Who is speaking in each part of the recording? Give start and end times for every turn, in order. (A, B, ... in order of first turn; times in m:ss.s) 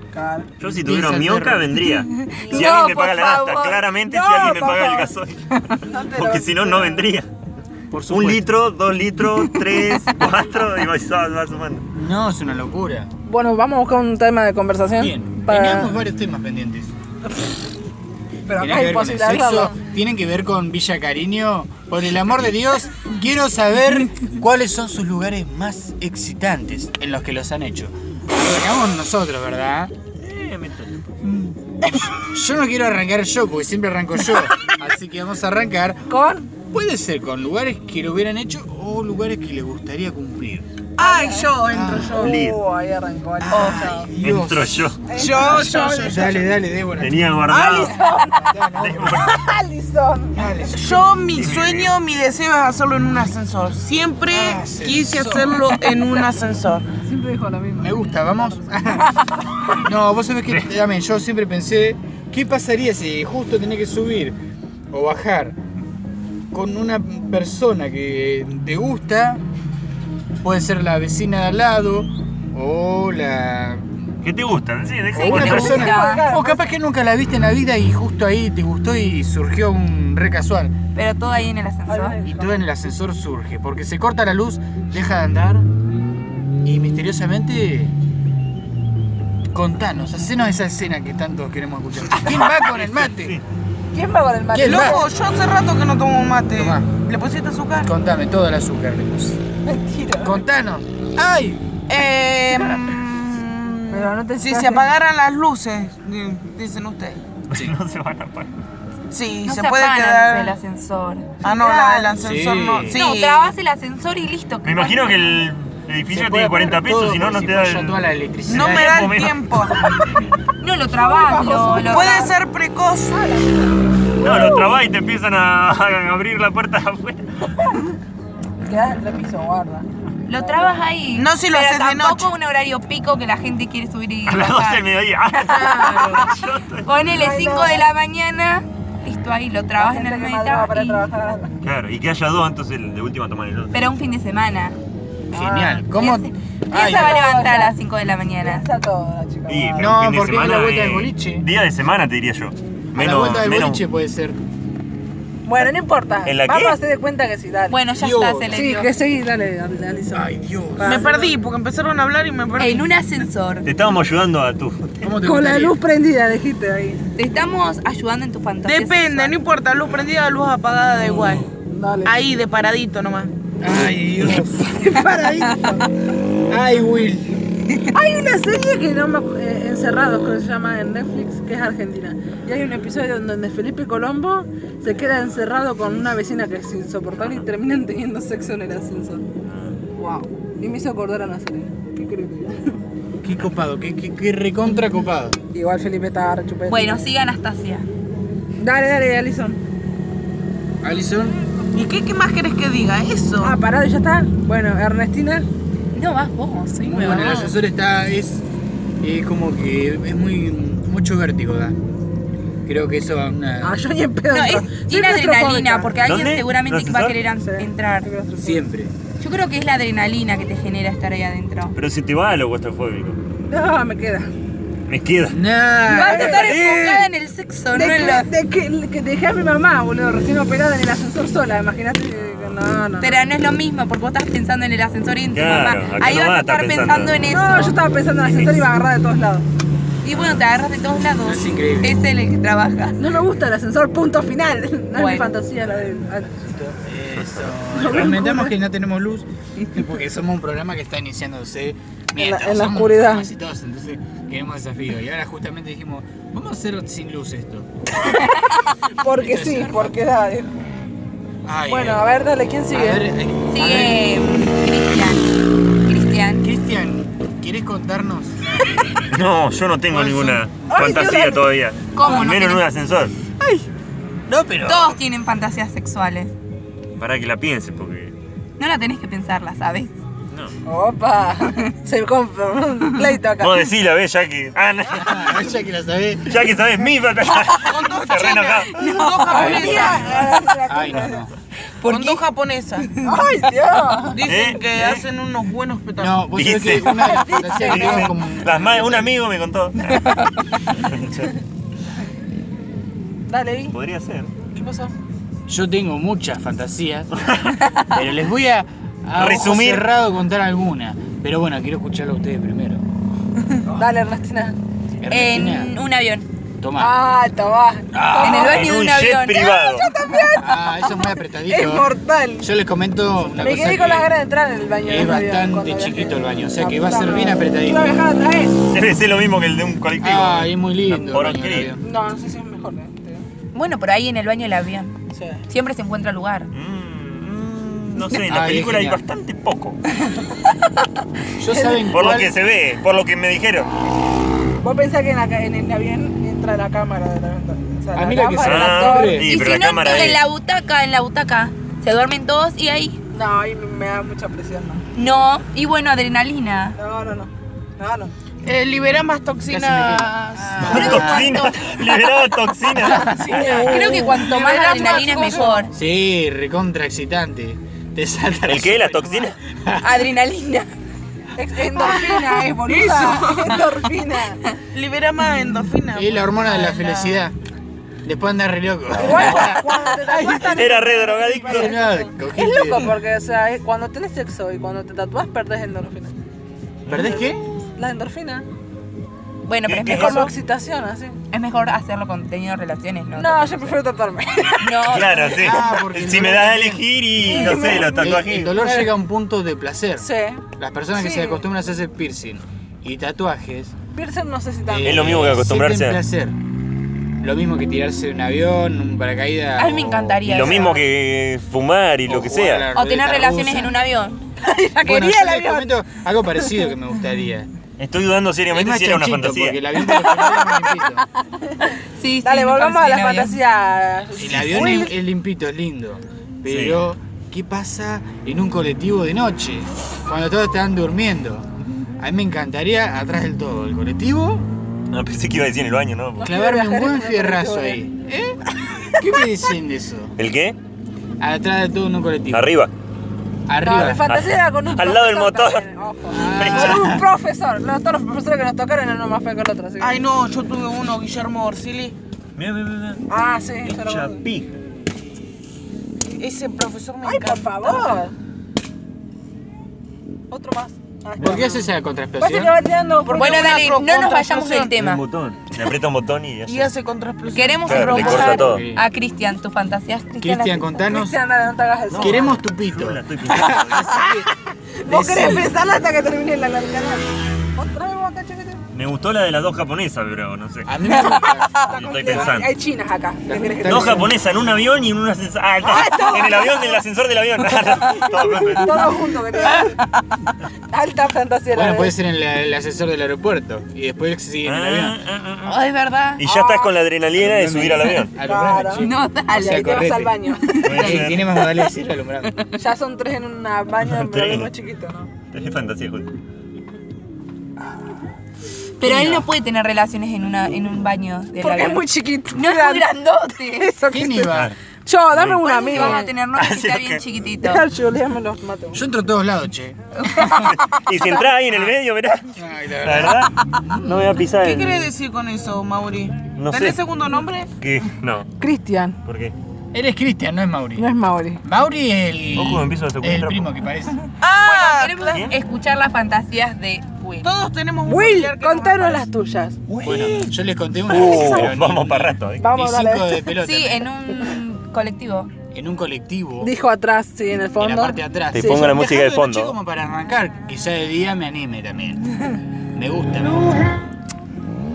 0:00.1-0:00.5 A
0:00.6-0:07.3 B
0:00.8-0:01.7 C
0:01.9-0:03.8 D
0:02.4-0:05.1 A
0:05.9-0:07.0 A
0:07.9-0:08.4 C
0:08.1-0:11.8 B
0:11.9-0:13.1 C
0:13.2-0:16.0 A
0:15.0-0:16.9 C
0:18.5-0:19.8 A
0:18.6-0:29.9 C
0:30.2-0:31.1 B
0:31.9-0:36.0 C
0:36.1-0:36.5 A
0:36.6-0:40.7 C
0:41.0-0:42.2 E
0:41.0-0:44.1 A
0:41.7-0:42.4 C
0:42.1-0:42.6 B
0:43.4-0:47.4 C
0:43.5-0:43.9 D
0:44.2-0:45.0 B
0:45.1-0:46.2 A
0:45.1-0:46.4 E
0:47.0-0:48.0 B
0:47.5-0:48.0 E
0:47.6-0:50.8 A
0:48.3-0:49.3 C
0:48.8-0:49.3 B
0:50.3-0:51.1 C
0:50.7-0:56.9 E
0:51.3-0:51.9 B
0:54.3-0:55.6 C
0:57.0-0:59.3 A
0:57.8-0:59.2 C
0:59.7-1:04.4 C
1:04.9-1:05.6 C
1:06.5-1:09.4 C
1:10.4-1:14.0 C
1:14.2-1:15.8 B
1:15.1-1:20.7 C
1:15.2-1:16.3 D
1:15.3-1:16.7 A
1:20.9-1:22.2 D
1:21.9-1:22.6 A
1:22.2-1:25.7 C
1:26.6-1:27.9 C
1:29.5-1:33.4 C
1:32.3-1:33.4 B
1:33.9-1:35.1 A
1:34.5-1:35.0 C
1:34.6-1:37.9 E
1:36.6-1:36.9 C
1:37.8-1:39.4 C
1:39.6-1:40.4 A
1:40.2-1:41.7 C
1:41.9-1:47.2 E
1:43.9-1:44.9 A
1:47.5-1:48.5 B
1:49.1-1:50.6 E
1:49.4-1:51.5 D
1:51.4-1:53.5 E
1:52.1-1:53.0 C
1:52.9-1:55.4 D
1:54.6-1:59.4 B
1:56.1-1:59.2 C
1:58.5-1:59.8 E
1:59.9-2:00.3 C
2:00.6-2:02.3 D
2:00.9-2:02.4 A
2:01.8-2:03.3 E
2:03.1-2:04.6 A
2:04.2-2:07.5 B
2:08.6-2:10.8 A
2:10.3-2:21.0 D
2:11.1-2:12.3 E
2:14.2-2:16.8 B
2:15.5-2:16.3 A
2:17.0-2:17.9 A
2:19.8-2:21.5 A
2:21.6-2:23.8 B
2:23.7-2:24.8 D
2:25.3-2:25.8 A
2:25.3-2:27.2 C
2:25.9-2:28.6 D
2:26.7-2:27.8 A
2:28.4-2:30.0 A
2:29.5-2:33.8 B
2:29.8-2:31.5 C
2:32.9-2:34.4 C
2:35.4-2:37.8 A
2:36.2-2:36.8 B
2:37.7-2:38.9 D
2:38.0-2:38.6 C
2:38.5-2:41.4 A
2:40.1-2:41.1 C
2:40.8-2:42.9 E
2:42.6-2:43.7 D
2:43.6-2:45.0 B
2:45.0-2:45.8 C
2:45.2-2:47.0 A
2:47.2-2:49.3 D
2:48.6-2:51.5 E
2:51.7-2:52.1 A
2:52.0-2:53.3 E
2:53.6-2:54.8 C
2:54.6-2:55.9 A
2:56.5-2:57.4 C
2:57.9-3:09.3 A
3:09.5-3:09.8 B
3:10.0-3:12.8 A
3:13.2-3:15.4 C
3:15.5-3:17.0 A
3:16.7-3:17.9 D
3:18.6-3:19.6 A
3:20.8-3:21.4 C
3:21.7-3:23.6 E
3:23.4-3:25.5 A
3:25.9-3:27.5 D
3:26.8-3:28.4 C
3:29.0-3:31.8 C
3:32.6-3:33.8 C
3:33.6-3:36.0 A
3:34.3-3:38.1 D
3:36.0-3:37.2 B
3:37.4-3:38.6 A
3:38.4-3:38.9 C
3:39.2-3:41.7 D
3:41.7-3:43.2 B
3:43.5-3:44.3 A
3:44.9-3:45.4 B
3:45.3-3:47.0 C
3:45.9-3:47.0 A
3:45.9-3:48.3 D
3:47.7-3:53.2 A
3:53.0-3:57.8 D
3:55.3-3:57.2 B
3:57.3-3:59.4 A
4:00.0-4:03.0 D
4:01.2-4:02.0 C
4:03.0-4:06.4 A
4:04.9-4:05.3 D
4:06.4-4:17.7 C
4:07.7-4:08.6 A
4:12.2-4:13.3 A
4:18.0-4:20.5 A
4:19.1-4:20.0 C
4:21.4-4:22.1 C
4:21.7-4:23.0 A
4:22.7-4:24.3 C
4:23.5-4:26.4 D
4:26.4-4:28.4 C
4:29.1-4:33.1 B
4:29.9-4:30.4 C
4:30.6-4:31.5 A
4:31.9-4:32.6 D
4:34.3-4:35.0 C
4:34.6-4:36.3 D
4:37.0-4:38.1 B
4:38.6-4:39.9 D
4:40.6-4:43.7 A
4:43.4-4:45.3 B
4:44.9-4:46.4 C
4:46.2-4:48.8 B
4:47.6-4:50.3 E
4:48.7-4:50.2 D
4:49.3-4:51.3 A
4:49.3-4:51.3 C
4:51.8-4:52.2 D
4:51.8-4:52.9 E
4:53.0-4:54.2 A
4:54.1-4:56.3 E
4:54.2-4:55.0 B
4:56.0-4:59.1 C
4:56.3-5:00.1 B
4:56.8-4:58.2 A
5:00.7-5:01.3 B
5:03.3-5:03.7 A
5:03.7-5:04.3 B
5:04.5-5:04.9 A
5:05.5-5:07.2 C
5:07.2-5:07.7 B
5:07.8-5:12.8 C
5:09.2-5:09.8 B
5:13.6-5:14.6 A
5:15.0-5:15.7 C
5:15.1-5:16.3 D
5:16.6-5:17.0 C
5:16.8-5:18.7 A
5:17.9-5:18.5 C
5:18.2-5:19.6 D
5:18.2-5:19.9 B
5:19.4-5:22.5 A
5:20.4-5:24.1 C
5:23.3-5:28.7 A
5:24.8-5:27.9 C
5:28.7-5:31.8 B
5:30.0-5:31.8 C
5:31.8-5:33.2 A
5:33.5-5:35.0 D
5:35.1-5:35.4 A
5:35.5-5:36.5 D
5:36.5-5:39.8 B
5:38.2-5:39.0 C
5:41.4-5:42.3 C
5:41.9-5:43.7 B
5:44.6-5:49.2 A
5:47.9-5:49.3 C
5:48.4-5:50.2 B
5:49.2-5:53.0 D
5:53.1-5:54.8 A
5:54.9-5:56.8 D
5:56.8-5:58.1 A
5:58.4-6:01.1 E
5:59.5-6:01.4 C
6:00.6-6:03.4 B
6:00.6-6:01.6 D
6:02.8-6:04.2 C
6:03.1-6:05.6 A
6:03.1-6:05.6 E
6:03.4-6:05.7 D
6:05.7-6:10.0 C
6:08.5-6:09.3 B
6:09.8-6:10.7 D
6:11.4-6:14.4 A
6:12.7-6:13.4 E
6:14.7-6:17.2 E
6:15.9-6:17.3 C
6:18.0-6:20.6 C
6:19.0-6:26.1 A
6:19.1-6:19.6 B
6:20.2-6:21.8 B
6:21.4-6:22.9 C
6:22.4-6:22.7 E
6:26.9-6:27.1 B
6:26.9-6:27.4 C
6:27.0-6:28.4 A
6:29.4-6:30.3 D
6:29.6-6:30.3 B
6:29.9-6:31.2 A
6:31.3-6:33.8 D
6:33.1-6:35.4 A
6:34.6-6:35.4 D
6:34.8-6:38.5 B
6:35.3-6:43.7 C
6:37.2-6:38.9 A
6:40.0-6:41.4 A
6:43.9-6:45.2 A
6:44.6-6:46.4 C
6:44.8-6:46.0 B
6:47.2-6:50.8 C
6:49.6-6:50.8 D
6:50.2-6:52.7 B
6:52.0-6:53.8 C
6:52.7-6:54.2 D
6:54.4-6:55.7 A
6:54.8-6:57.5 C
6:57.8-6:59.6 B
6:58.5-7:01.0 C
6:59.9-7:00.6 A
7:02.0-7:03.4 D
7:02.2-7:04.9 A
7:04.1-7:14.5 C
7:06.5-7:06.8 B
7:14.9-7:16.3 B
7:16.2-7:17.8 A
7:16.2-7:20.1 C
7:18.7-7:19.0 A
7:20.2-7:20.6 B
7:21.2-7:22.5 C
7:22.3-7:22.7 B
7:23.5-7:24.0 C
7:23.6-7:30.0 A
7:24.0-7:25.6 B
7:26.1-7:27.0 C
7:26.2-7:27.0 B
7:29.8-7:31.9 E
7:32.4-7:33.0 B
7:33.1-7:34.2 A
7:33.6-7:34.5 B
7:36.2-7:37.9 E
7:37.0-7:38.1 A
7:40.3-7:41.6 A
7:41.2-7:42.6 C
7:42.2-7:43.6 A
7:43.0-7:44.7 E
7:43.1-7:45.0 D
7:44.7-7:46.7 B
7:46.4-7:48.2 E
7:47.3-7:50.8 D
7:47.6-7:48.6 B
7:47.8-7:48.8 C
7:50.2-7:51.2 C
7:50.8-7:52.4 A
7:51.9-7:54.0 B
7:51.9-7:54.3 C
7:54.8-7:58.6 A
7:54.8-7:55.5 C
7:58.7-8:00.7 B
8:00.6-8:02.3 C
8:00.9-8:04.1 A
8:00.9-8:01.3 D
8:01.7-8:02.5 B
8:03.3-8:04.1 C
8:03.6-8:09.0 B
8:05.6-8:06.8 A
8:07.9-8:09.8 A
8:10.7-8:11.9 A
8:11.5-8:15.0 C
8:14.4-8:15.6 B
8:15.4-8:16.2 D
8:16.2-8:18.1 B
8:16.2-8:16.8 A
8:17.2-8:22.4 C
8:18.1-8:20.7 A
8:18.8-8:19.9 D
8:20.4-8:21.6 D
8:20.6-8:21.3 B
8:22.6-8:25.1 A
8:23.8-8:24.5 B
8:25.3-8:26.1 B
8:28.8-8:33.7 D
8:28.8-8:29.3 C
8:31.4-8:33.0 A
8:33.5-8:34.3 A
8:33.9-8:34.5 C
8:34.8-8:36.1 A
8:35.1-8:37.0 B
8:35.4-8:37.6 D
8:37.4-8:38.8 A
8:38.7-8:39.8 C
8:40.0-8:40.5 D
8:40.2-8:41.2 A
8:40.4-8:44.9 B
8:42.3-8:43.8 C
8:44.4-8:47.5 E
8:46.4-8:46.8 B
8:47.6-8:48.3 B
8:48.4-8:49.0 A
8:49.0-8:49.3 B
8:49.7-8:50.9 C
8:50.8-8:51.4 A
8:51.4-8:54.0 C
8:52.4-8:53.5 B
8:54.2-8:55.2 E
8:54.4-8:57.3 D
8:55.1-8:55.3 B
8:57.2-8:59.0 E
8:57.8-8:59.6 A
8:59.7-9:00.2 B
8:59.8-9:03.9 C
9:00.9-9:02.5 B
9:00.9-9:01.5 A
9:02.4-9:03.3 A
9:03.4-9:05.3 D
9:05.5-9:06.5 C
9:06.4-9:08.6 A
9:07.6-9:12.1 C
9:08.3-9:09.6 B
9:12.7-9:13.7 C